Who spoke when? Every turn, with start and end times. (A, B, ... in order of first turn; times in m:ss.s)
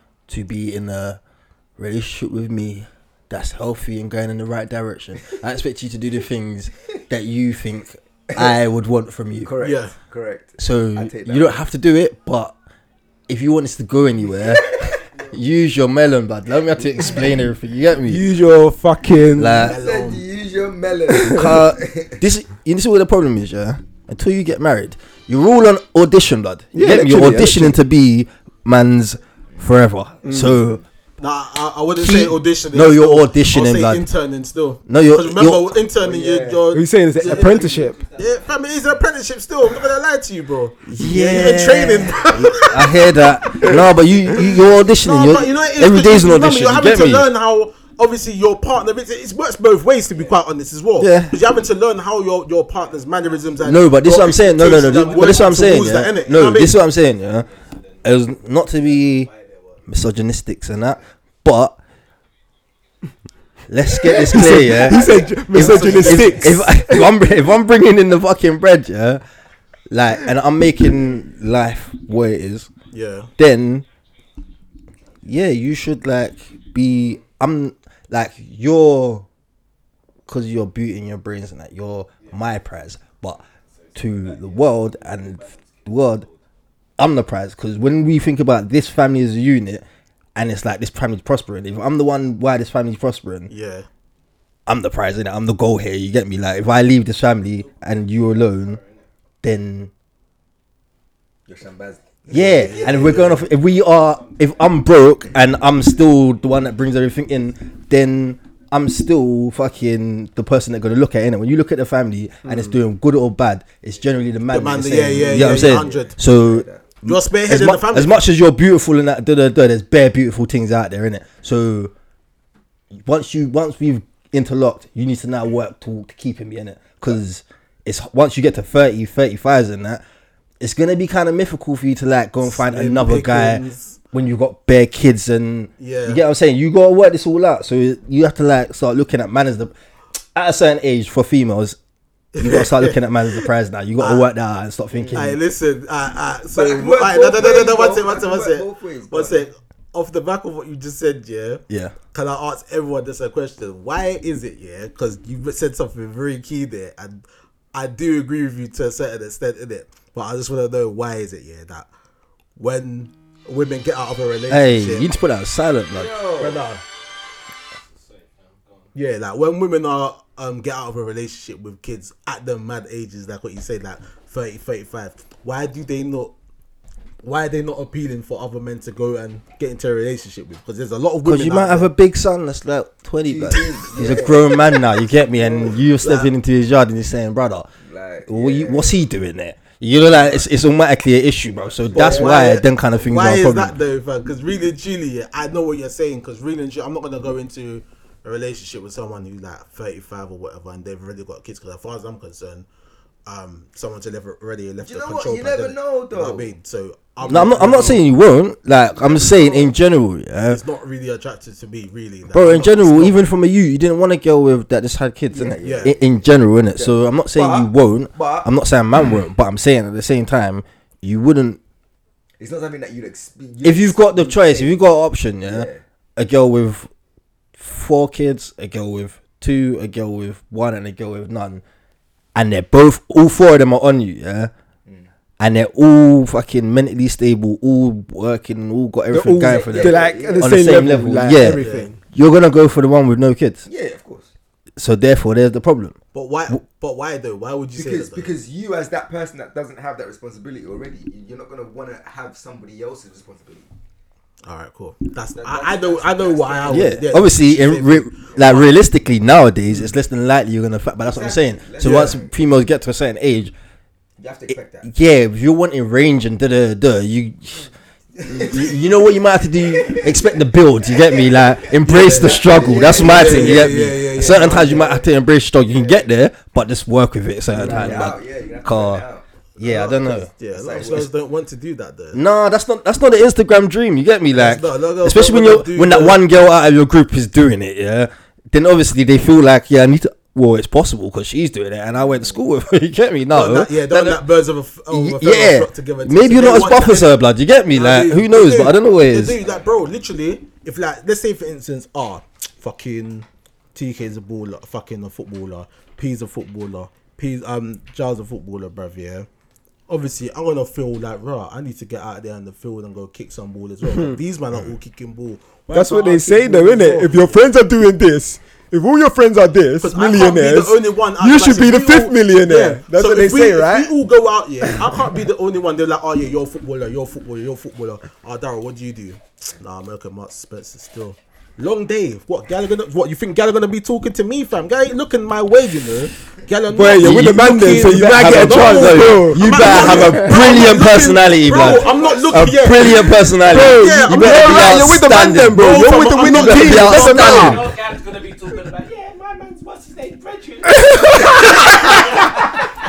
0:00.3-0:01.2 A
0:01.8-0:09.5 A
0:08.3-0:08.6 B
0:09.4-0:11.6 B
0:09.6-0:09.9 C
0:10.6-0:12.5 A
0:13.3-0:18.2 A
0:14.8-0:15.3 D
0:18.1-0:19.6 E
0:19.4-0:19.8 A
0:19.5-0:20.2 C
0:19.7-0:22.2 B
0:21.2-0:30.8 A
0:26.7-0:27.8 E
0:30.2-0:30.6 E
0:31.2-0:42.9 C
0:32.0-0:34.0 A
0:34.9-0:35.7 A
0:36.0-0:36.6 B
0:36.1-0:38.0 E
0:37.2-0:39.9 D
0:40.9-0:47.3 A
0:41.4-0:41.6 D
0:45.0-0:56.7 C
0:45.2-0:45.8 D
0:50.1-0:50.4 D
0:51.0-0:51.4 A
0:52.7-0:59.9 D
0:53.6-0:57.5 A
0:58.0-0:59.3 A
0:59.9-1:01.8 A
1:03.7-1:09.2 A
1:04.1-1:07.1 E
1:04.9-1:06.7 C
1:05.0-1:05.9 D
1:09.9-1:12.7 A
1:12.9-1:13.3 C
1:13.4-1:13.8 A
1:15.2-1:19.2 A
1:20.3-1:23.4 A
1:23.6-1:26.4 D
1:24.0-1:26.3 A
1:27.0-1:29.8 A
1:30.4-1:33.5 A
1:33.5-1:33.8 C
1:34.7-1:38.8 A
1:37.6-1:39.0 D
1:39.4-1:39.9 A
1:41.5-1:43.4 B
1:42.3-2:01.9 A
1:42.6-1:46.6 D
1:42.7-1:43.4 C
1:52.4-1:52.7 E
1:54.5-1:56.1 C
1:55.3-1:56.8 B
1:57.0-1:58.2 C
2:03.0-2:10.0 A
2:10.6-2:19.7 A
2:12.4-2:14.0 C
2:15.8-2:16.2 C
2:20.3-2:21.8 A
2:22.3-2:23.4 C
2:22.4-2:25.4 A
2:24.0-2:24.3 C
2:24.9-2:25.3 B
2:25.1-2:37.2 C
2:26.5-2:29.4 B
2:31.7-2:32.0 A
2:37.7-2:41.9 C
2:42.6-2:45.1 C
2:44.5-2:46.1 A
2:45.9-2:46.6 B
2:46.4-2:46.8 C
2:47.8-2:48.9 D
2:48.9-2:56.3 C
2:57.2-3:01.9 C
3:01.2-3:07.7 A
3:03.2-3:04.8 B
3:05.3-3:05.8 B
3:06.0-3:06.3 C
3:07.8-3:09.0 B
3:08.3-3:13.7 A
3:11.5-3:12.5 B
3:11.9-3:22.6 C
3:23.2-3:28.0 C
3:24.8-3:26.5 B
3:27.2-3:30.6 A
3:29.0-3:29.7 C
3:30.5-3:33.2 C
3:32.3-3:41.6 A
3:35.3-3:36.2 B
3:35.6-3:35.9 C
3:36.7-3:38.5 B
3:42.4-3:44.8 B
3:43.6-3:46.9 A
3:45.4-3:45.8 B
3:47.6-3:51.6 A
3:52.3-3:54.5 A
3:55.4-4:03.6 A
3:59.1-4:02.0 E
3:59.4-4:00.8 B
4:01.6-4:01.9 C
4:03.6-4:04.3 B
4:04.8-4:06.0 A
4:06.1-4:08.3 C
4:07.8-4:13.7 B
4:14.4-4:18.7 C
4:15.3-4:17.2 B
4:16.7-4:23.5 A
4:21.0-4:22.3 B
4:24.2-4:24.9 B
4:24.8-4:27.7 A
4:28.2-4:29.0 B
4:28.3-4:39.0 A
4:29.6-4:35.0 B
4:31.8-4:34.9 C
4:35.7-4:36.0 B
4:37.5-4:39.2 B
4:39.6-4:40.3 A
4:39.6-4:42.2 C
4:40.1-4:41.1 B
4:42.1-4:54.2 A
4:44.3-4:46.2 C
4:53.3-4:57.2 C
4:54.9-4:59.4 A
4:57.7-5:09.3 C
5:09.9-5:17.3 C
5:13.8-5:14.2 E
5:15.7-5:23.9 E
5:16.7-5:17.1 B
5:19.8-5:45.0 C
5:24.6-5:25.0 E
5:36.7-5:40.7 E
5:36.9-5:45.7 A
5:40.9-5:43.0 D
5:43.4-5:47.6 E
5:45.5-5:47.5 C
5:46.2-5:47.7 A
5:46.8-5:52.7 D
5:50.8-5:51.6 E
5:51.5-5:52.2 C